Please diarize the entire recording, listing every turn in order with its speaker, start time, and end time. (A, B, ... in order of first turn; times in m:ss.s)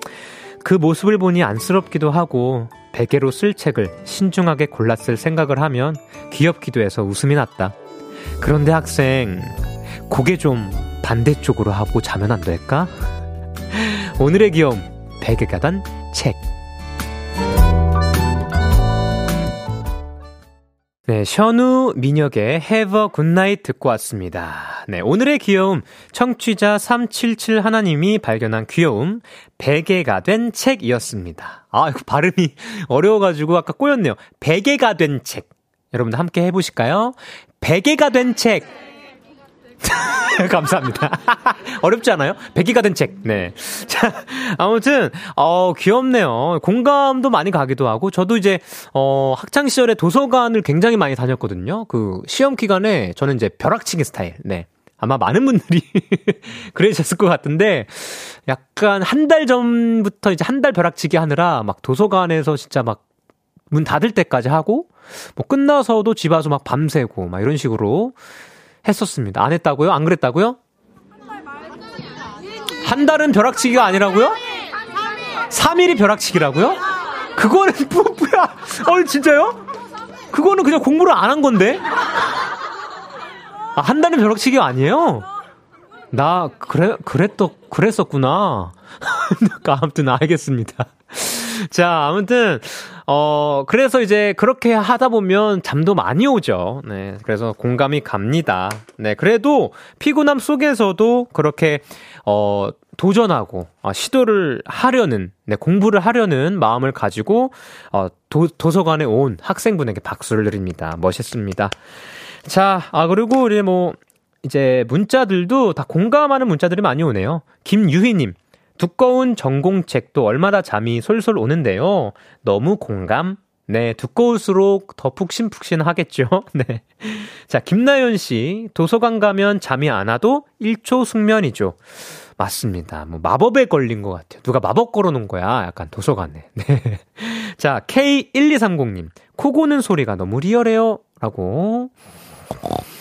0:00.6-0:07.7 A
0:08.4-0:12.9 A
0:13.7-0:16.4 A
0:21.1-0:38.7 A
0:39.8-1:03.0 A
1:03.7-1:08.2 A
1:08.8-1:10.6 A
1:12.8-1:14.4 A
1:15.5-1:16.8 A
1:17.3-1:19.6 A
1:20.3-1:21.8 A
1:23.8-1:25.2 A
1:26.1-1:51.7 A
1:52.4-2:11.8 A
2:12.4-2:21.9 A